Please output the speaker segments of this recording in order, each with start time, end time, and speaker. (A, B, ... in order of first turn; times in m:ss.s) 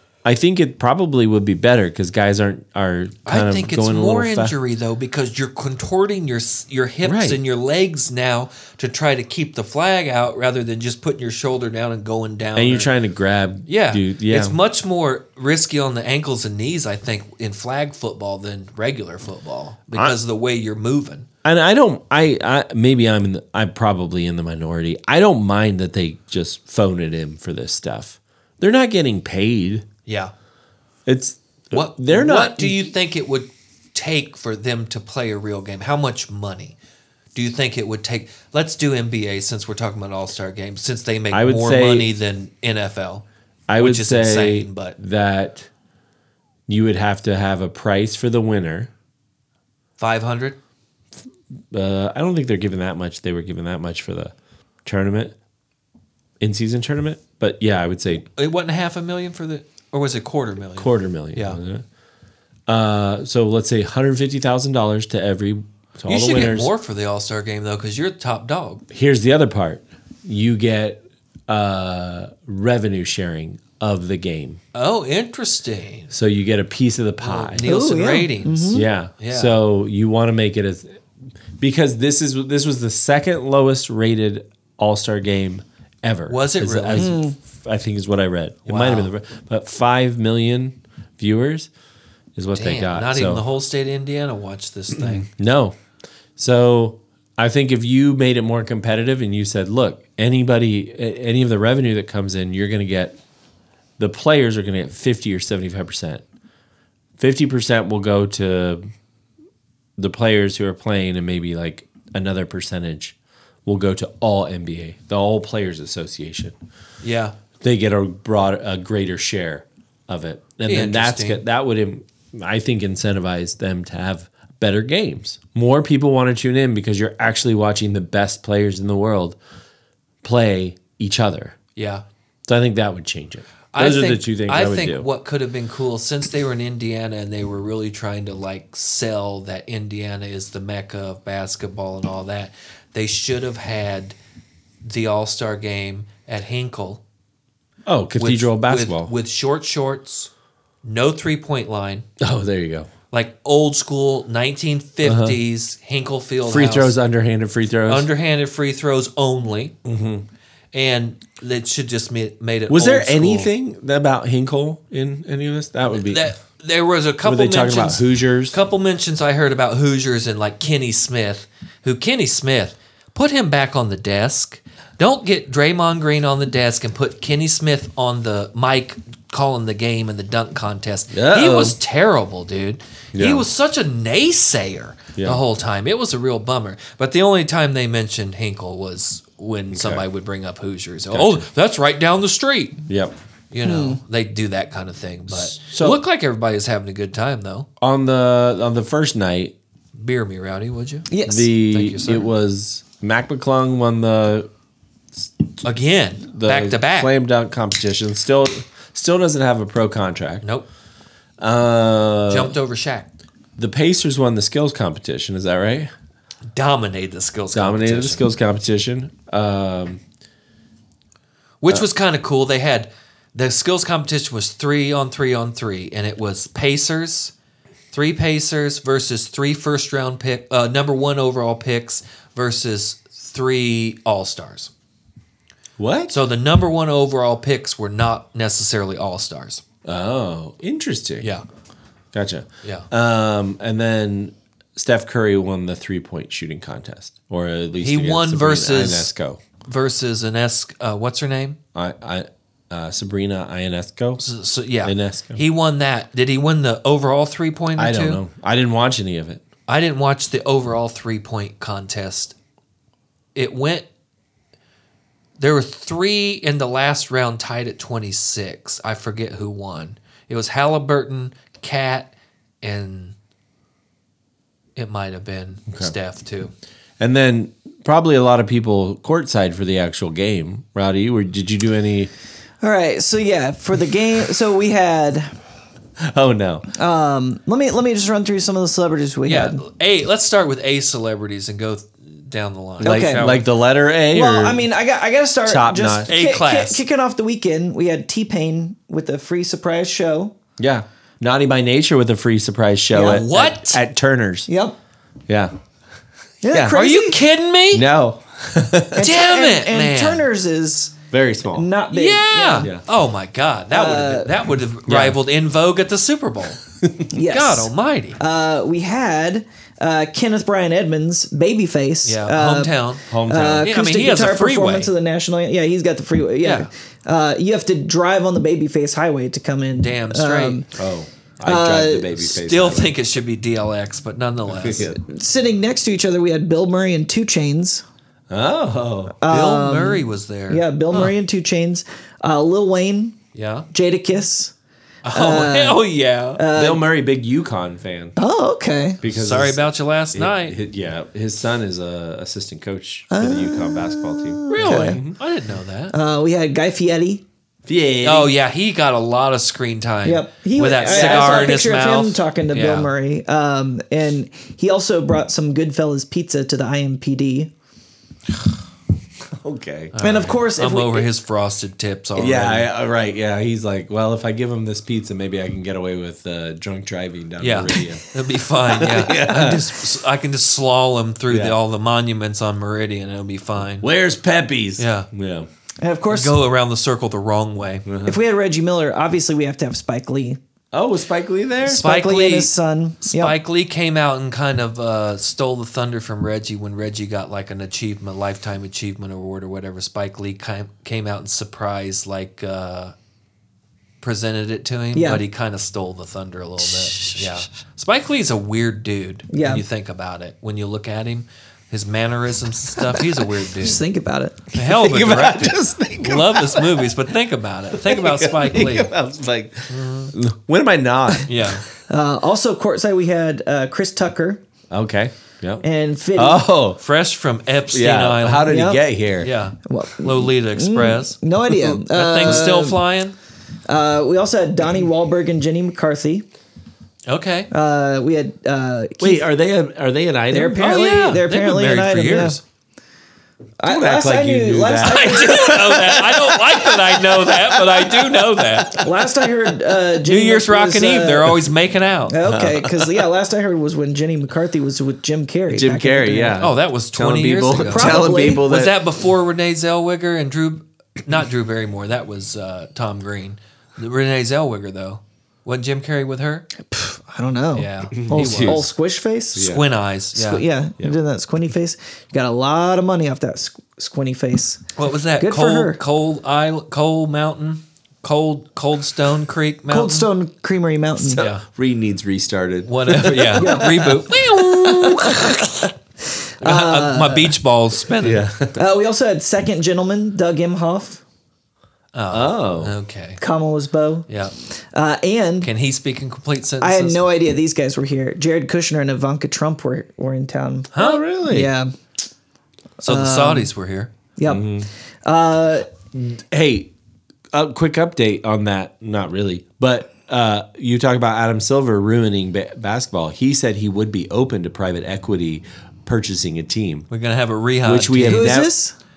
0:00.2-0:04.5 A
0:03.2-0:12.9 B
0:07.0-0:07.4 A
0:12.6-0:14.6 A
0:13.7-0:21.3 B
0:21.4-0:29.8 A
0:30.0-0:30.3 B
0:31.0-0:32.9 A
0:31.7-0:36.8 B
0:37.3-0:43.2 B
0:41.3-0:42.1 A
0:43.7-0:45.7 A
0:43.8-0:45.0 B
0:46.7-0:48.9 A
0:50.0-0:50.6 B
0:51.7-0:54.3 A
0:54.8-0:55.3 A
0:56.4-0:58.2 A
0:58.4-1:01.6 B
1:00.8-1:01.8 A
1:02.7-1:06.7 A
1:06.1-1:08.8 B
1:08.9-1:14.6 A
1:14.7-1:16.1 B
1:16.1-1:17.6 A
1:17.2-1:19.6 B
1:17.6-1:18.8 C
1:18.7-1:21.0 A
1:21.6-1:31.7 A
1:26.3-1:27.2 B
1:27.0-1:27.4 C
1:28.6-1:29.1 B
1:32.4-1:33.4 A
1:32.5-1:35.3 B
1:34.9-1:35.8 A
1:36.4-1:43.2 A
1:44.0-1:46.2 A
1:47.2-1:48.8 A
1:50.0-1:56.5 A
1:57.0-1:57.3 B
1:57.6-2:09.4 A
2:00.7-2:01.4 B
2:10.2-2:11.6 A
2:11.8-2:12.0 B
2:12.5-2:15.1 A
2:13.7-2:24.1 B
2:24.8-2:27.0 B
2:27.8-2:29.1 A
2:28.2-2:30.3 B
2:30.8-2:32.0 B
2:32.2-2:32.9 A
2:33.1-2:36.9 B
2:35.0-2:35.4 A
2:36.5-2:38.1 A
2:37.9-2:39.7 B
2:39.8-2:40.2 A
2:40.7-2:43.5 B
2:42.7-2:46.3 A
2:45.9-3:12.8 B
2:47.2-2:48.6 A
3:01.1-3:01.8 A
3:03.1-3:03.5 A
3:05.2-3:05.4 A
3:09.7-3:10.0 A
3:11.1-3:11.4 A
3:12.9-3:13.1 A
3:13.5-3:17.7 B
3:13.6-3:14.0 C
3:15.3-3:16.0 A
3:17.8-3:19.5 A
3:20.0-3:22.3 B
3:21.1-3:21.5 C
3:21.3-3:24.5 A
3:25.6-3:27.1 B
3:26.3-3:30.4 A
3:31.4-3:32.6 A
3:32.3-3:33.1 B
3:33.6-3:35.9 A
3:36.5-3:38.2 B
3:37.5-3:40.0 A
3:41.6-3:47.3 B
3:47.9-3:54.7 B
3:55.8-3:56.2 A
3:56.1-3:59.6 B
3:59.8-4:01.3 A
4:02.1-4:09.4 A
4:07.8-4:09.1 B
4:09.6-4:11.6 B
4:11.7-4:14.2 A
4:14.2-4:18.2 B
4:14.8-4:15.4 A
4:17.8-4:19.4 A
4:19.7-4:22.3 B
4:23.3-4:23.8 B
4:25.4-4:32.1 B
4:32.6-4:33.1 B
4:34.8-4:36.5 B
4:37.0-4:42.1 A
4:42.6-4:45.3 C
4:46.0-4:46.7 A
4:46.7-4:49.6 C
4:49.2-4:53.4 B
4:52.8-4:54.7 A
4:52.8-4:53.3 C
4:54.1-5:00.3 C
4:55.4-4:56.1 A
4:56.1-4:56.8 B
5:00.6-5:04.5 A
5:02.9-5:03.2 C
5:03.0-5:03.8 B
5:04.5-5:04.7 C
5:06.4-5:07.2 C
5:06.5-5:06.8 A
5:06.7-5:07.8 B
5:07.7-5:09.0 A
5:08.9-5:11.0 C
5:09.0-5:10.2 B
5:11.1-5:11.7 A
5:11.5-5:12.7 C
5:11.9-5:16.6 B
5:13.7-5:14.3 C
5:14.9-5:15.2 A
5:17.1-5:30.7 C
5:17.3-5:18.2 B
5:22.0-5:23.0 B
5:23.1-5:23.7 A
5:23.6-5:24.9 B
5:26.4-5:26.7 B
5:29.8-5:30.6 B
5:30.8-5:32.9 A
5:31.4-5:32.1 C
5:32.2-5:34.9 B
5:34.5-5:35.0 A
5:34.9-5:37.8 C
5:38.3-5:39.2 A
5:39.2-5:43.2 C
5:39.3-5:41.1 B
5:43.3-5:43.7 B
5:43.7-5:44.5 C
5:45.0-5:46.4 B
5:45.1-5:45.8 C
5:46.4-5:46.8 C
5:46.5-5:48.1 A
5:48.2-5:49.0 C
5:49.0-5:49.6 A
5:49.0-5:50.6 B
5:50.1-5:55.2 A
5:53.1-5:55.0 C
5:54.5-5:55.9 B
5:55.9-5:57.2 C
5:57.6-5:58.3 A
5:58.0-6:02.9 B
6:00.0-6:07.5 C
6:00.8-6:01.5 A
6:09.3-6:09.9 A
6:09.9-6:12.7 B
6:10.0-6:11.1 C
6:12.2-6:18.1 A
6:17.4-6:23.9 B
6:18.7-6:19.8 A
6:18.7-6:19.1 C
6:21.3-6:21.6 A
6:23.8-6:25.5 A
6:24.8-6:25.1 B
6:25.8-6:26.4 C
6:26.1-6:27.8 B
6:27.8-6:28.2 A
6:28.0-6:30.4 C
6:30.7-6:31.8 A
6:31.6-6:33.3 C
6:31.8-6:42.9 B
6:44.0-6:53.8 B
6:44.9-6:45.2 C
6:49.3-6:49.6 C
6:53.6-6:54.5 C
6:54.5-6:58.9 B
6:54.6-6:56.9 A
6:57.7-7:01.5 A
6:59.7-7:00.1 B
7:01.2-7:01.6 B
7:01.9-7:04.4 C
7:04.7-7:05.6 A
7:05.6-7:06.4 C
7:06.1-7:06.8 A
7:06.8-7:08.6 B
7:07.7-7:09.3 A
7:08.5-7:08.8 C
7:09.2-7:11.2 B
7:09.6-7:12.8 C
7:11.7-7:13.2 B
7:13.7-7:16.2 C
7:17.1-7:17.5 B
7:17.5-7:19.2 C
7:19.0-7:20.7 A
7:20.3-7:22.4 C
7:20.5-7:22.4 B
7:23.6-7:25.6 C
7:23.6-7:28.7 A
7:24.8-7:28.9 B
7:28.7-7:31.4 C
7:30.0-7:32.1 B
7:32.1-7:36.4 C
7:32.2-7:33.0 A
7:35.5-7:38.8 A
7:36.4-7:46.5 B
7:37.6-7:38.4 C
7:46.6-7:49.5 C
7:47.5-7:48.7 B
7:48.0-7:48.7 A
7:49.3-7:49.7 A
7:49.3-7:50.4 B
7:50.1-7:55.8 C
7:54.8-8:00.1 B
7:59.7-8:01.2 C
8:01.0-8:04.1 A
8:01.2-8:01.4 B
8:02.6-8:05.7 B
8:03.4-8:05.7 C
8:06.2-8:07.3 C
8:06.4-8:08.2 B
8:08.0-8:08.6 A
8:08.6-8:11.0 C
8:11.9-8:13.2 B
8:12.1-8:12.7 A
8:13.2-8:14.1 C
8:14.7-8:15.5 C
8:15.4-8:17.0 B
8:16.6-8:20.7 C
8:20.7-8:21.0 B
8:20.7-8:21.5 A
8:21.2-8:21.7 C
8:22.8-8:23.5 C
8:22.8-8:23.9 B
8:24.2-8:25.7 C
8:24.3-8:24.7 A
8:25.9-8:26.7 A
8:27.3-8:36.9 A
8:36.9-8:38.4 B
8:37.6-8:38.5 A
8:38.1-8:38.7 C